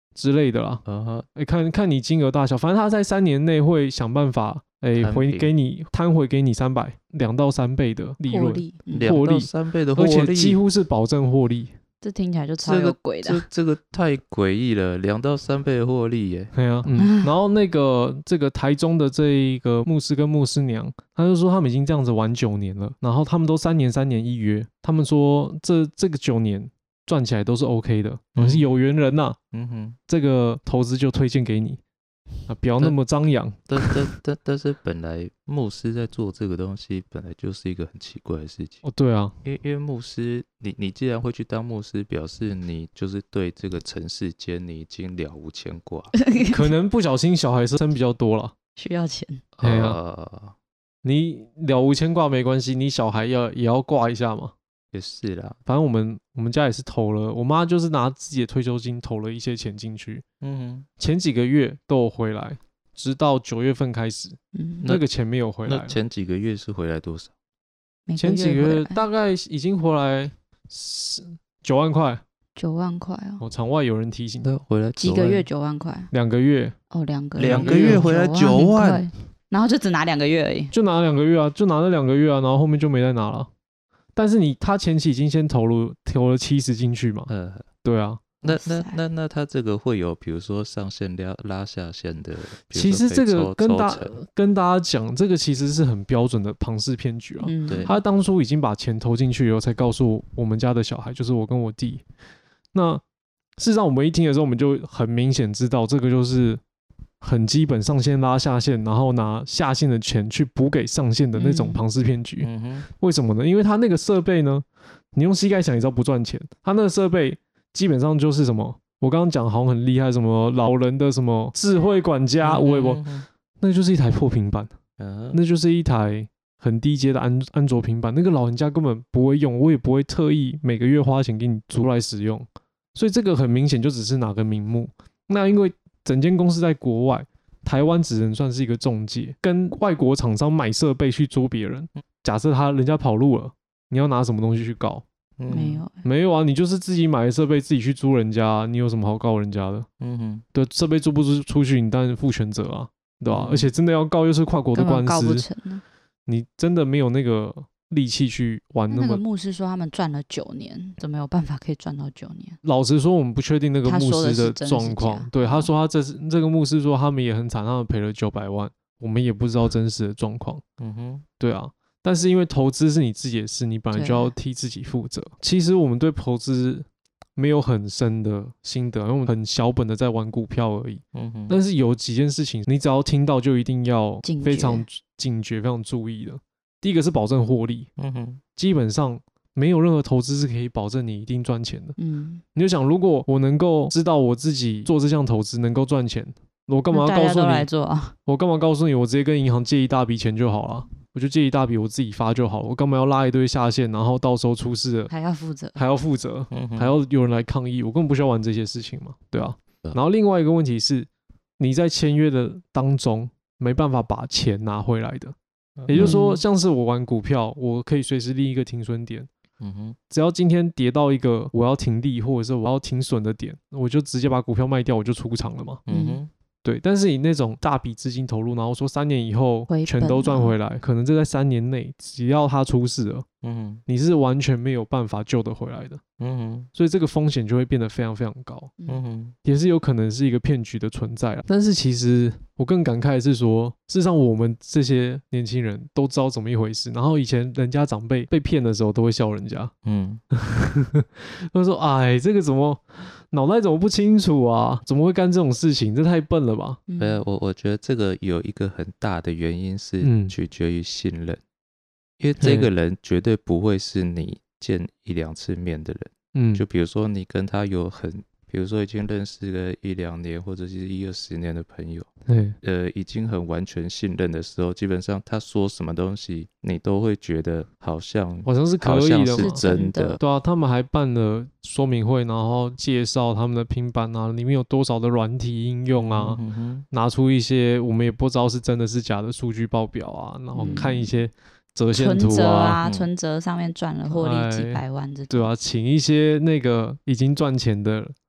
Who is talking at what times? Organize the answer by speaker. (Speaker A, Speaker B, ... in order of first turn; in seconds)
Speaker A: 0.1-0.8, 1.4-11.7, 16.5-29.4, 30.1-31.8, 32.5-34.0, 38.8-39.3, 46.5-48.5, 49.6-50.0, 51.0-54.5, 55.7-60.2, 61.0-66.0, 68.2-72.2, 73.4-74.6, 76.1-76.8, 77.4-78.1, 80.7-83.5, 84.2-87.3, 87.8-88.2, 92.7-102.0, 102.7-103.0, 103.6-106.6, 107.2-123.0, 123.6-124.7, 125.3-145.0, 146.0-149.9, 150.5-155.5, 156.3-159.2, 162.6-170.6, 171.4-187.9, 188.6-192.0, 192.6-197.7, 198.3-205.1, 205.8-215.3, 215.9-219.3, 220.1-225.8, 226.6-233.3, 233.9-236.0, 236.8-238.7, 239.4-249.7, 250.3-256.8, 260.0-260.3, 262.4-262.7, 266.4-266.6, 272.3-272.6, 278.4-279.6, 280.2-292.8, 294.1-298.1
Speaker B: 0.9-1.3, 5.0-5.5, 8.9-10.6, 12.6-16.5, 28.4-28.7, 29.5-30.0, 33.7-38.8, 39.4-46.1, 49.6-50.5, 54.9-55.6, 60.4-60.9, 65.7-67.3, 74.4-75.5, 77.4-79.1, 87.3-87.7, 88.4-94.2, 97.7-98.0, 112.4-112.9, 122.4-123.3, 125.0-125.4, 145.4-145.8, 150.0-150.4, 153.3-153.7, 170.8-171.2, 181.1-181.6, 188.0-188.4, 206.5-206.9, 215.8-216.2, 219.6-220.0, 225.9-226.3, 233.4-233.8, 236.2-236.7, 238.9-239.3, 249.8-250.2, 257.0-261.4, 262.2-272.1, 272.6-280.2, 286.0-286.9, 290.6-290.9, 292.8-293.1
Speaker C: 8.2-9.2, 12.0-13.4, 17.0-17.3, 46.1-46.7, 48.8-49.4, 64.5-64.9, 68.1-69.0, 72.6-73.4, 75.0-76.1, 76.9-80.7, 88.5-89.0, 97.4-98.0, 111.4-111.8, 145.5-146.0, 154.8-155.8, 158.9-162.6, 163.8-165.7, 173.9-174.3, 184.2-184.8, 192.0-192.4, 196.9-198.2, 205.1-205.8, 215.9-216.4, 225.9-226.2, 229.7-230.6, 256.9-257.2, 279.4-280.2, 290.5-291.1, 291.9-295.5